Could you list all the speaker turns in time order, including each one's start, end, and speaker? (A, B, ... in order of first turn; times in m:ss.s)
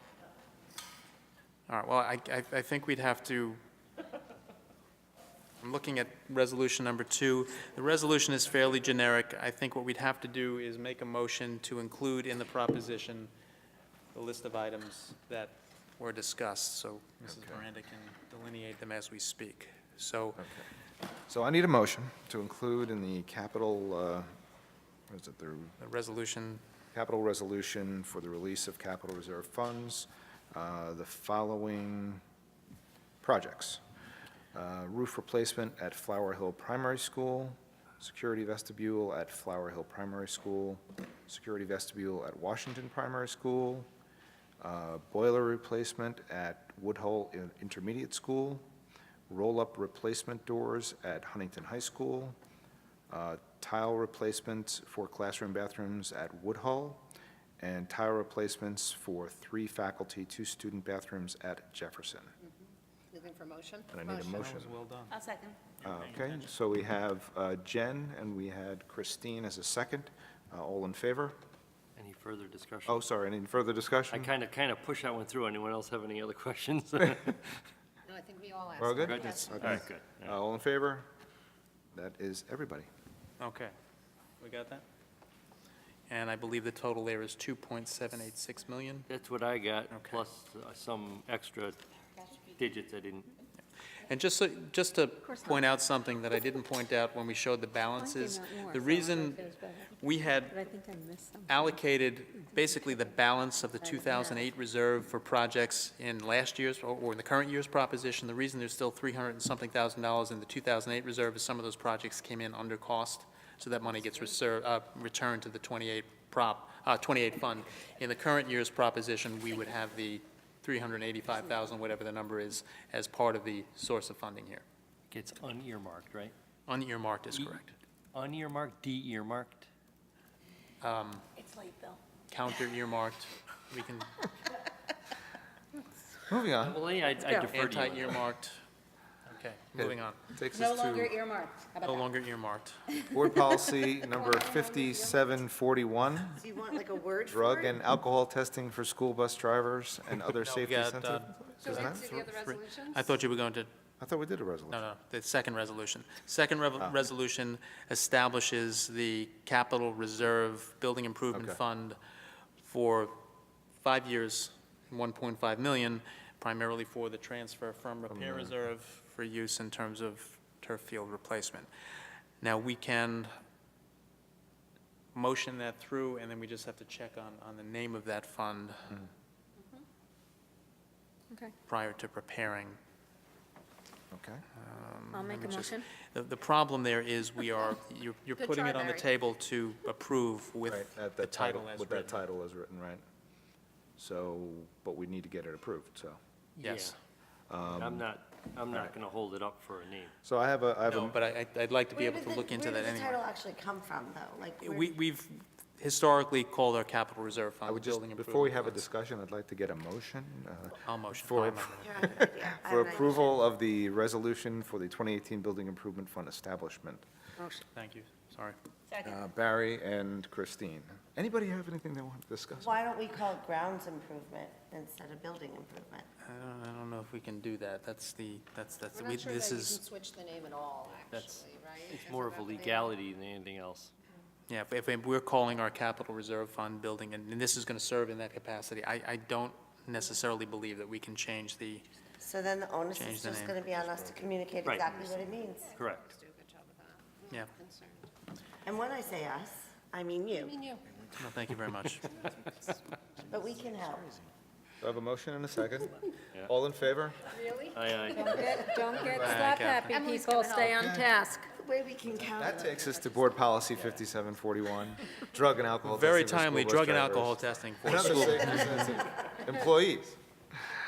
0:01.7-0:03.6 A
0:05.6-0:13.3 A
0:14.1-0:20.4 A
0:17.2-0:17.6 B
0:20.4-0:20.6 B
0:21.3-0:24.3 B
0:25.1-0:25.8 B
0:25.8-0:26.6 A
0:26.9-0:32.2 B
0:33.2-0:33.8 B
0:34.5-0:43.9 B
0:44.6-0:48.7 B
0:49.3-0:52.4 B
0:53.1-0:57.0 B
0:57.6-1:02.3 B
1:03.1-1:04.4 C
1:03.9-1:04.8 B
1:04.4-1:05.2 A
1:05.1-1:05.6 D
1:05.8-1:06.5 A
1:05.8-1:11.4 B
1:12.0-1:13.0 E
1:12.9-1:14.3 B
1:14.1-1:17.5 E
1:18.1-1:19.6 C
1:18.8-1:21.1 B
1:19.0-1:20.4 E
1:21.9-1:22.9 B
1:23.4-1:23.7 A
1:24.4-1:24.8 A
1:26.1-1:29.1 A
1:29.1-1:31.8 E
1:29.9-1:30.2 A
1:32.4-1:33.3 E
1:34.0-1:40.6 A
1:38.0-1:41.8 D
1:41.5-2:04.6 A
1:42.4-1:43.1 D
1:43.8-1:44.5 D
2:05.1-2:06.3 E
2:06.7-2:07.7 A
2:07.3-2:07.6 E
2:08.1-2:09.7 E
2:10.8-2:11.2 A
2:11.4-2:12.0 D
2:12.3-2:14.2 A
2:16.3-2:16.8 B
2:16.6-2:18.2 E
2:17.2-2:17.5 D
2:17.5-2:18.6 A
2:19.3-2:20.2 A
2:19.8-2:21.2 B
2:20.5-2:22.1 D
2:21.8-2:22.8 A
2:23.1-2:26.4 B
2:24.1-2:25.2 D
2:26.4-2:27.8 F
2:27.3-2:32.0 B
2:30.4-2:33.7 A
2:31.6-2:33.2 C
2:34.0-2:34.8 B
2:34.7-2:42.0 A
2:41.3-2:41.6 B
2:42.6-2:43.2 A
2:43.8-2:51.7 A
2:48.1-2:48.6 B
2:52.4-2:53.3 A
2:55.1-2:59.0 A
3:01.7-3:02.8 A
3:04.1-3:04.4 B
3:04.6-3:12.2 A
3:05.1-3:05.8 D
3:08.4-3:09.1 C
3:10.7-3:13.0 B
3:14.0-3:16.2 B
3:16.6-3:17.0 E
3:16.6-3:16.9 A
3:17.5-3:18.1 B
3:17.7-3:20.1 E
3:18.7-3:19.0 B
3:20.2-3:21.2 B
3:20.9-3:23.2 A
3:22.0-3:25.0 F
3:24.6-3:28.8 A
3:27.6-3:37.0 B
3:30.8-3:32.1 A
3:31.8-3:33.4 F
3:37.7-3:38.6 A
3:39.0-3:42.8 B
3:42.6-3:46.1 F
3:46.2-3:49.8 A
3:48.9-3:53.0 C
3:51.1-3:53.9 E
3:54.5-4:01.9 A
4:02.2-4:05.8 F
4:02.9-4:03.6 A
4:04.6-4:05.0 E
4:05.4-4:08.1 C
4:05.8-4:06.2 E
4:08.6-4:10.6 F
4:10.3-4:10.8 C
4:11.2-4:12.1 A
4:13.3-4:14.1 F
4:14.8-4:17.2 B
4:17.3-4:17.9 C
4:17.7-4:18.8 E
4:18.1-4:21.5 D
4:18.9-4:19.5 B
4:19.2-4:20.1 A
4:19.9-4:20.8 C
4:20.7-4:21.1 B
4:21.5-4:23.4 F
4:22.3-4:30.2 B
4:23.8-4:24.0 E
4:25.9-4:28.9 A